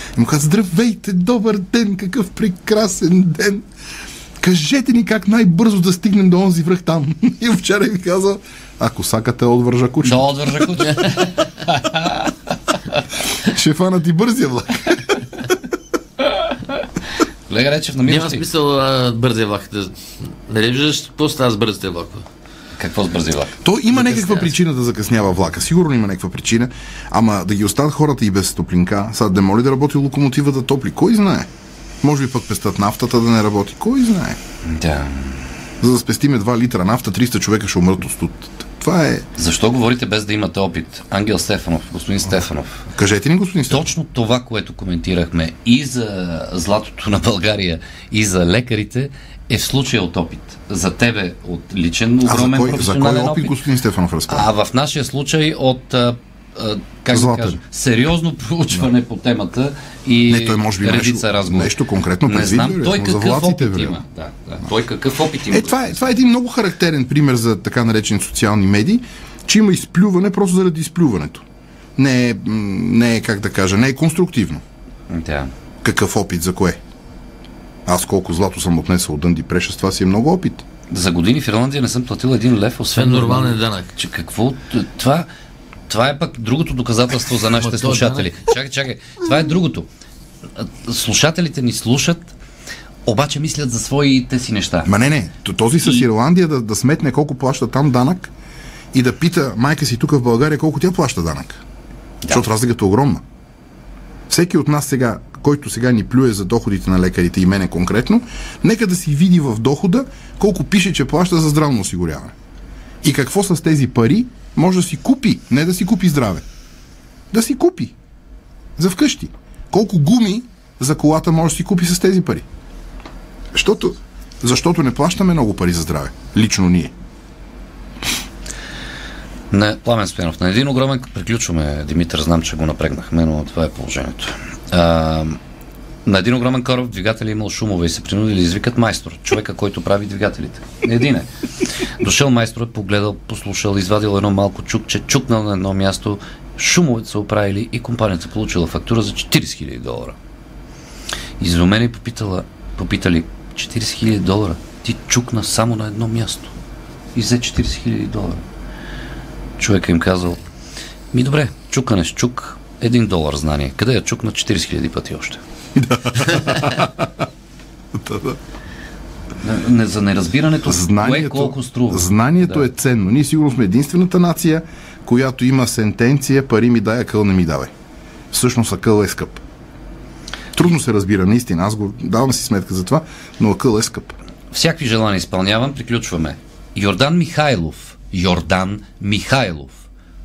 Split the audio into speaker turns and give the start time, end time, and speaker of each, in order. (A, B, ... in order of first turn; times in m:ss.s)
0:00.2-0:03.6 A
0:04.4-0:10.9 A
0:10.0-0:12.3 B
0:13.4-0:15.5 A
0:17.5-0:18.4 B
0:18.1-0:22.2 C
0:22.8-0:24.4 B
0:23.6-0:31.5 A
0:32.0-0:34.4 A
0:34.6-0:35.4 B
0:35.8-0:39.2 A
0:39.4-0:42.8 B
0:42.9-0:43.9 A
0:43.7-0:53.6 B
0:52.2-0:54.5 A
0:54.3-1:06.1 B
0:57.1-0:57.6 A
1:00.3-1:04.0 A
1:05.5-1:11.4 A
1:12.0-1:14.6 A
1:15.1-1:15.5 B
1:15.8-1:16.8 A
1:17.8-1:20.6 A
1:20.9-1:25.3 B
1:22.9-1:23.9 C
1:25.9-1:29.9 B
1:27.6-1:28.4 C
1:30.6-1:32.3 B
1:33.0-1:34.9 B
1:34.8-1:38.3 A
1:38.9-1:41.6 A
1:42.3-1:43.2 A
1:44.3-1:52.3 A
1:53.0-1:56.4 A
1:57.3-1:57.9 A
1:58.8-2:02.4 A
2:03.5-2:06.9 A
2:09.5-2:15.4 B
2:16.0-2:21.3 B
2:22.0-2:30.2 B
2:31.4-2:36.5 B
2:37.1-2:38.4 B
2:39.6-2:40.4 B
2:41.1-2:45.4 B
2:45.8-2:47.2 A
2:47.9-2:48.4 A
2:49.4-2:52.6 B
2:50.6-2:57.7 A
2:58.3-2:59.4 A
3:00.5-3:04.2 A
3:04.5-3:09.8 B